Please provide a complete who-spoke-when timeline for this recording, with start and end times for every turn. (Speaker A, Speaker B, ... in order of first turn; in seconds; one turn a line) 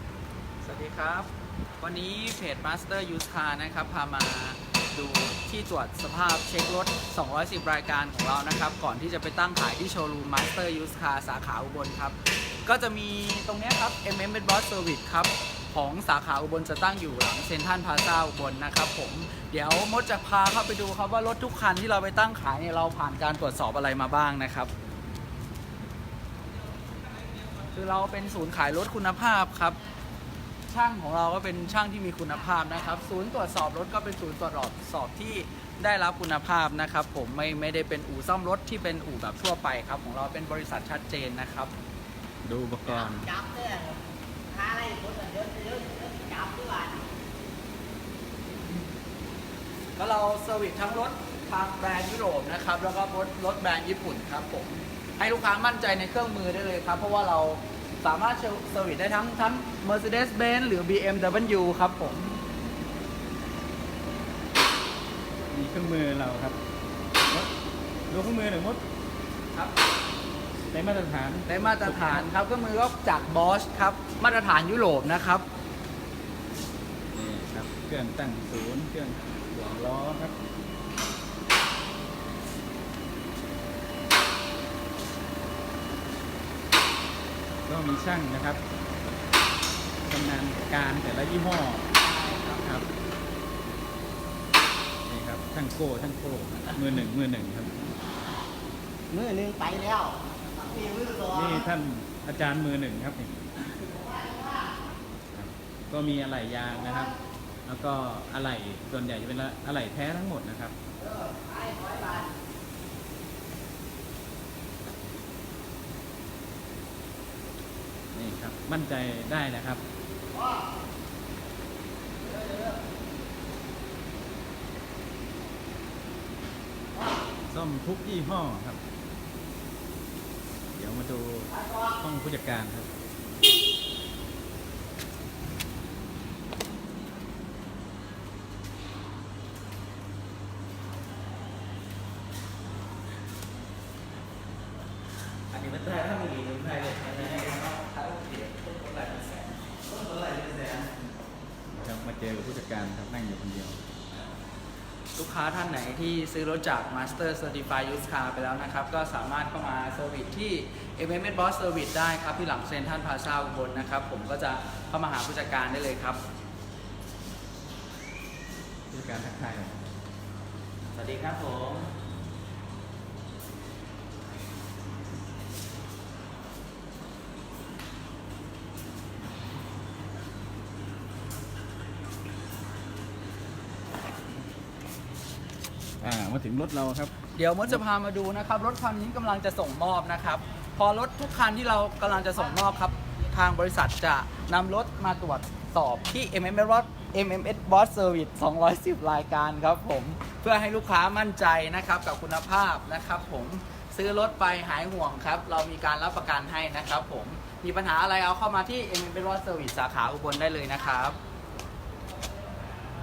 Speaker A: 0.6-1.3
Speaker A: 1.8-24.7
Speaker A: 27.7-29.8
Speaker A: 30.7-41.7
Speaker B: 42.4-43.3
Speaker C: 42.9-47.0
Speaker A: 50.0-62.4
Speaker B: 65.5-66.5
Speaker B: 68.1-68.8
Speaker B: 70.7-72.3
Speaker A: 71.5-75.4
Speaker B: 77.1-80.3
Speaker B: 87.7-88.6
Speaker B: 90.0-91.9
Speaker A: 92.0-92.6
Speaker B: 92.6-92.9
Speaker B: 95.1-97.7
Speaker C: 99.1-101.7
Speaker B: 101.3-103.4
Speaker C: 103.8-104.7
Speaker B: 105.3-107.1
Speaker B: 107.7-110.7
Speaker C: 111.0-112.3
Speaker B: 118.1-119.8
Speaker B: 127.5-128.8
Speaker B: 130.8-132.9
Speaker B: 145.5-147.1
Speaker A: 146.4-149.9
Speaker B: 150.1-150.9
Speaker B: 151.7-154.2
Speaker A: 155.1-166.2
Speaker B: 168.9-169.8
Speaker A: 170.9-171.9
Speaker B: 186.0-187.1
Speaker A: 187.3-211.2